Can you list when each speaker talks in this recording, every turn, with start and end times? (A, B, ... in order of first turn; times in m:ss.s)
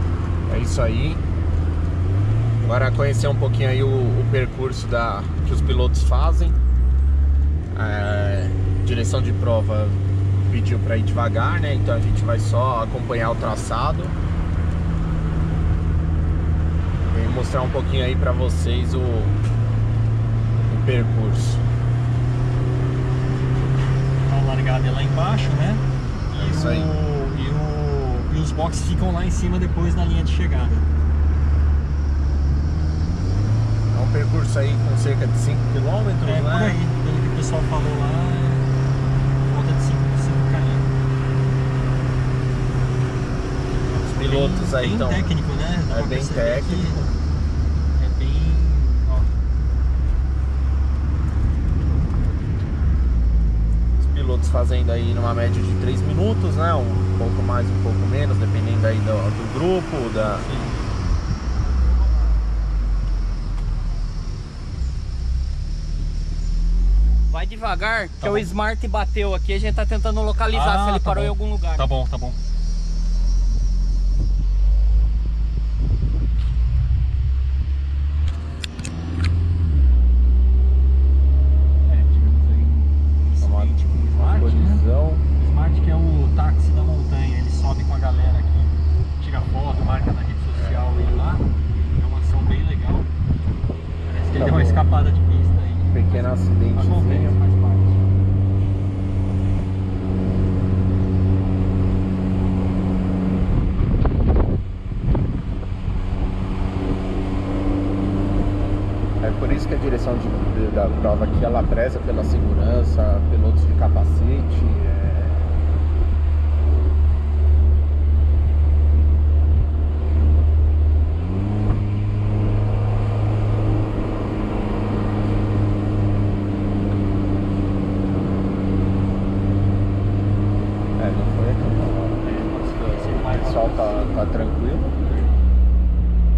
0:00.5-0:01.2 A
0:02.6-0:06.6 A
0:07.7-0:14.2 A
0:17.1-0:19.4 A
0:20.7-0:21.6 A
0:24.3-0:30.8 B
0:26.3-0:26.9 A
0:33.9-0:36.8 A
0:36.2-0:38.7 B
0:39.4-0:40.9 B
0:43.9-0:47.1 B
0:44.1-0:45.3 A
0:45.9-0:47.1 A
0:48.0-0:49.3 B
0:54.0-1:00.5 A
1:00.3-1:00.8 B
1:07.3-1:11.9 C
1:08.2-1:08.6 B
1:10.5-1:12.4 B
1:21.8-1:24.8 B
1:23.4-1:25.3 A
1:25.4-1:33.1 B
1:30.5-1:31.1 A
1:34.0-1:38.1 B
1:34.3-1:34.9 A
1:35.9-1:37.4 A
1:49.2-1:55.6 A
2:11.0-2:15.0 A
2:12.2-2:14.3 B
2:15.0-2:15.4 B